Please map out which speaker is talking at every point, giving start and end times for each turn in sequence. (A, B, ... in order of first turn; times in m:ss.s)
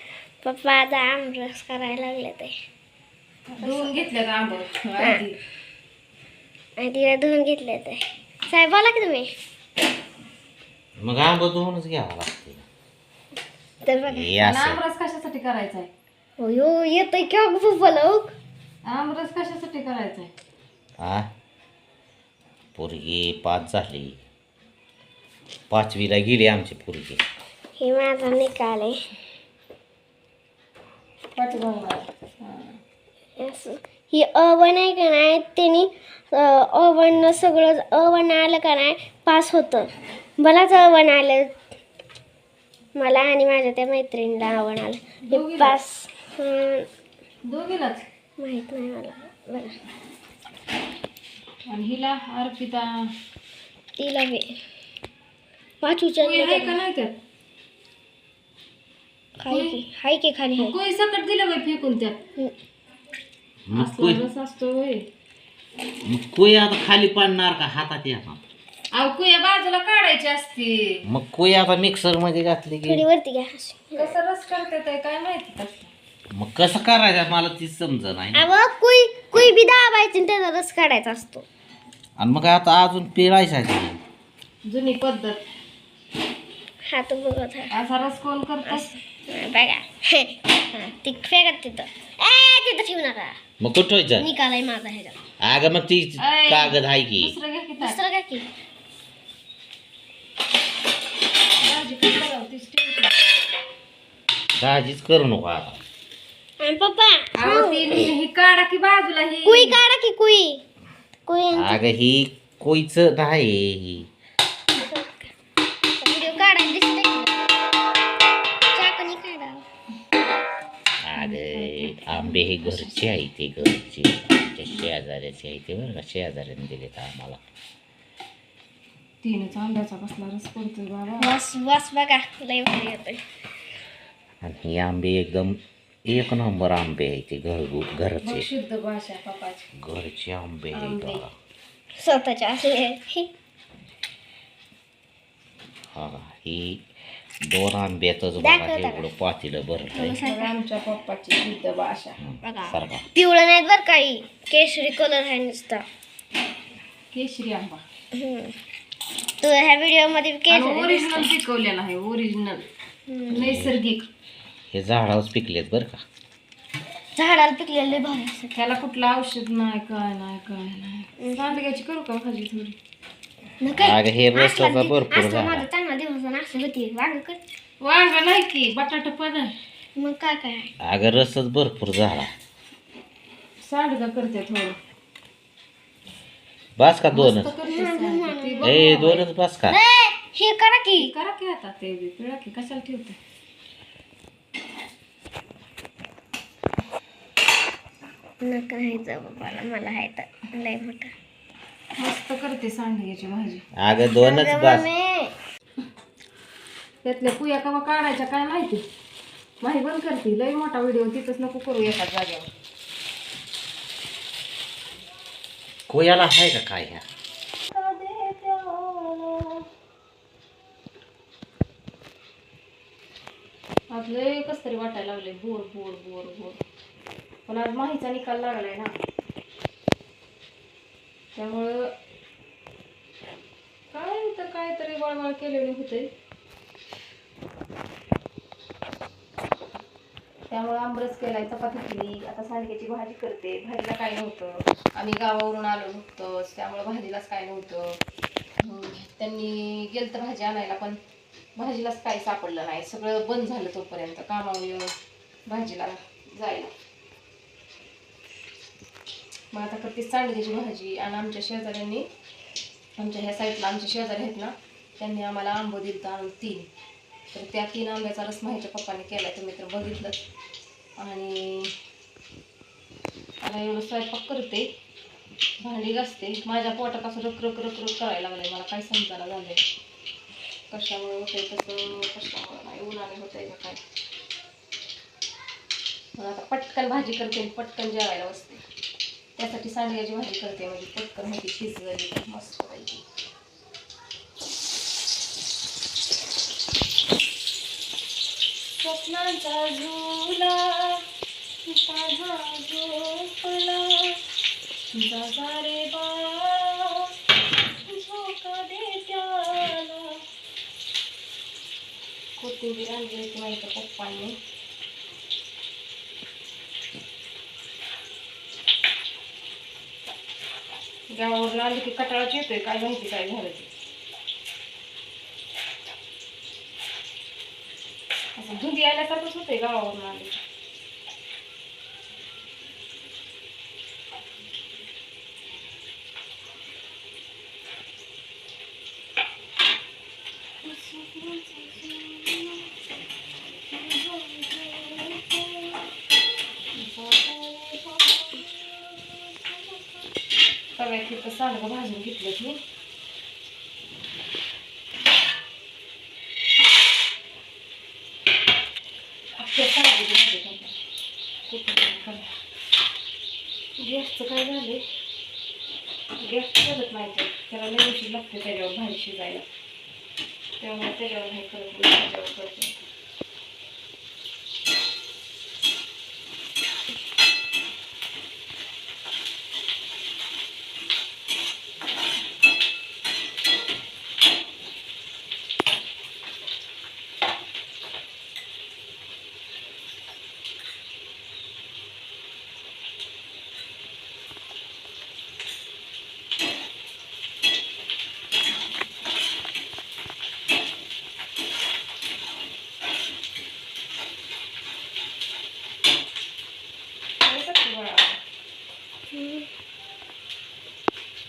0:00.4-0:02.5 A
0:03.5-0:05.3 B
0:03.6-0:04.0 A
0:06.8-0:09.3 A
0:11.0-0:12.6 C
0:13.8-0:14.4 A
0:14.1-0:14.8 C
0:14.4-0:15.9 B
0:16.4-0:18.3 A
0:18.8-0:20.3 B
0:21.0-0:21.3 C
0:22.7-0:24.2 C
0:25.7-0:27.2 C
0:27.8-0:28.9 A
0:31.4-0:32.8 B
0:33.4-0:39.9 A
0:40.4-0:41.5 A
0:43.0-0:46.9 A
0:45.3-0:45.8 B
0:47.4-0:48.0 B
0:48.4-0:49.7 A
0:51.7-0:53.0 B
0:54.0-0:54.4 A
0:55.8-0:56.8 A
0:56.2-0:57.2 B
0:59.4-1:00.8 A
0:59.5-0:59.8 B
1:00.6-1:02.2 B
1:03.7-1:04.2 C
1:03.7-1:05.0 B
1:06.0-1:08.4 C
1:08.9-1:11.0 B
1:11.1-1:13.0 C
1:12.9-1:14.1 A
1:14.0-1:15.9 B
1:16.3-1:18.4 C
1:18.3-1:21.4 A
1:22.2-1:24.0 C
1:24.6-1:25.5 B
1:26.9-1:27.7 A
1:27.7-1:29.0 B
1:28.6-1:33.4 A
1:33.6-1:34.3 C
1:34.2-1:35.2 A
1:35.4-1:37.3 C
1:36.2-1:38.0 B
1:37.8-1:38.5 A
1:41.6-1:43.1 B
1:44.6-1:45.8 C
1:46.6-1:48.1 A
1:47.3-1:49.8 B
1:49.4-1:50.6 A
1:51.3-1:51.8 A
1:51.5-1:54.1 C
1:54.7-1:55.3 A
1:56.0-1:57.4 A
1:58.7-1:59.6 A
2:01.0-2:07.4 C
2:01.2-2:03.2 B
2:09.2-2:11.3 B
2:11.2-2:13.2 A
2:14.4-2:15.6 C
2:16.1-2:18.5 C
2:18.2-2:19.7 B
2:19.8-2:21.3 C
2:20.7-2:21.2 B
2:22.0-2:23.3 A
2:25.9-2:26.8 C
2:27.5-2:30.2 C
2:28.4-2:29.1 A
2:29.9-2:30.5 A
2:30.2-2:32.2 B
2:32.2-2:33.0 C
2:32.4-2:35.8 A
2:37.1-2:37.8 B
2:38.1-2:38.5 A
2:39.4-2:41.3 A
2:40.5-2:42.7 B
2:43.1-2:43.4 A
2:43.3-2:43.7 C
2:43.3-2:44.1 B
2:44.7-2:46.0 C
2:47.1-2:48.5 A
2:48.5-2:52.8 B
2:51.2-2:51.5 A
2:53.6-2:57.4 A
2:53.7-2:55.7 C
2:57.8-2:59.5 B
3:00.0-3:00.7 A
3:00.8-3:02.3 C
3:03.6-3:04.8 B
3:06.8-3:07.5 C
3:07.1-3:09.3 B
3:07.6-3:08.7 A
3:08.6-3:09.8 C
3:09.7-3:11.1 A
3:11.0-3:13.2 B
3:18.4-3:21.1 A
3:22.0-3:23.6 B
3:23.8-3:24.9 C
3:24.2-3:25.3 A
3:27.0-3:28.8 B
3:29.6-3:32.5 B
3:35.9-3:37.0 C
3:37.6-3:39.6 B
3:43.9-3:46.6 B
3:47.5-3:48.9 B
3:51.3-3:51.9 B
3:53.9-3:56.1 B
4:00.5-4:08.0 B
4:08.6-4:11.0 B
4:11.6-4:14.9 B
4:15.4-4:16.7 B
4:19.5-4:22.1 B
4:23.0-4:26.7 B
4:27.3-4:30.2 B
4:31.0-4:31.7 B
4:33.4-4:34.7 B
4:35.6-4:39.6 B
4:40.7-4:43.8 B
4:46.2-4:48.6 B
4:49.4-4:53.0 B
4:58.8-5:01.0 B
5:01.6-5:04.2 B
5:04.9-5:07.1 B
5:07.8-5:10.2 B
5:12.4-5:14.4 B
5:21.1-5:23.7 B
5:28.4-5:30.4 B
5:40.6-5:42.7 B
5:43.7-5:45.7 B
5:46.7-5:50.0 B
5:50.8-5:52.6 B
5:59.3-6:00.8 B
6:01.5-6:02.3 B
6:03.8-6:04.8 B
6:06.2-6:09.5 B
6:10.6-6:12.8 B
6:47.2-6:48.2 B
6:49.1-6:49.5 A